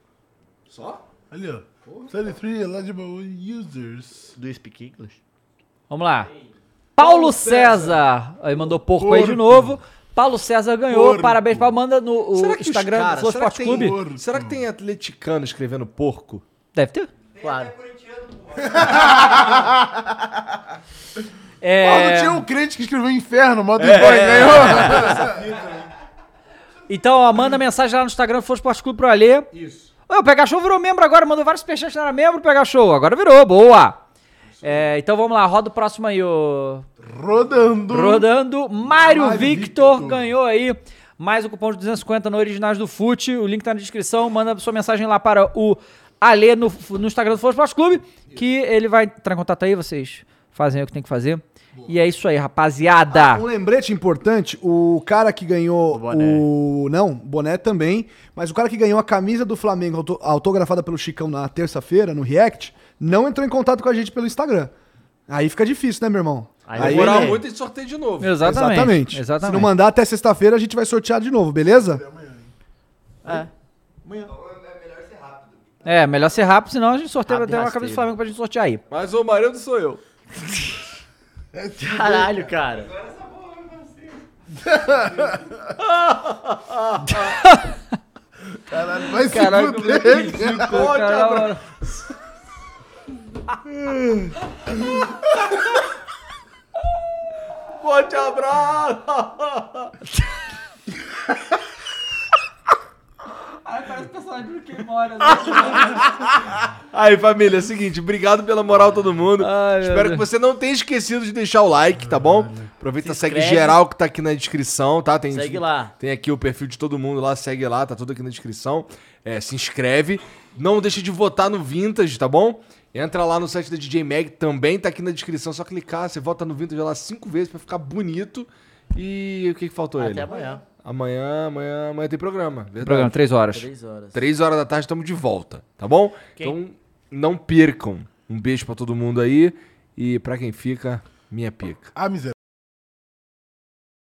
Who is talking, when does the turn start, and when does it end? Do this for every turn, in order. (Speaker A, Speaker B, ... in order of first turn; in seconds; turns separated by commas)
Speaker A: 0.7-1.0, Speaker B: 1.3-4.3, Speaker A: 1.8-2.1, Speaker C: 4.4-5.2, Speaker D: 5.9-6.3, Speaker D: 7.0-14.0, Speaker A: 7.0-7.9, Speaker B: 8.7-9.8, Speaker B: 10.9-11.7, Speaker E: 12.3-16.4, Speaker B: 13.7-14.6, Speaker D: 16.7-17.1, Speaker C: 17.4-17.9, Speaker B: 18.6-19.7, Speaker D: 21.6-22.4, Speaker B: 21.8-25.5, Speaker E: 23.8-25.2, Speaker A: 25.2-25.8, Speaker D: 26.9-29.5, Speaker A: 29.5-29.9, Speaker D: 30.1-34.0, Speaker D: 34.6-36.9, Speaker B: 37.0-38.3, Speaker D: 37.9-53.4, Speaker A: 39.0-40.1, Speaker A: 53.1-64.7, Speaker C: 55.9-56.5, Speaker A: 65.3-67.4, Speaker C: 66.7-67.5, Speaker E: 66.8-68.4, Speaker D: 68.2-69.7, Speaker A: 68.4-72.0, Speaker B: 71.7-72.5, Speaker C: 73.2-73.5, Speaker A: 74.0-74.3, Speaker D: 75.8-78.8, Speaker C: 77.3-78.0, Speaker E: 78.9-80.0, Speaker B: 81.5-82.2, Speaker C: 81.8-83.0, Speaker B: 84.7-85.2, Speaker C: 86.0-87.1, Speaker D: 87.1-87.8, Speaker B: 88.7-90.8, Speaker D: 89.2-91.6, Speaker E: 90.5-91.6, Speaker E: 97.8-99.9, Speaker D: 103.6-106.0, Speaker E: 106.9-133.2, Speaker D: 109.4-110.2, Speaker B: 112.1-112.7, Speaker C: 113.0-113.8, Speaker C: 115.3-115.9, Speaker C: 129.9-130.6, Speaker D: 132.8-133.7, Speaker C: 133.5-134.2, Speaker E: 134.1-141.9, Speaker B: 141.9-142.3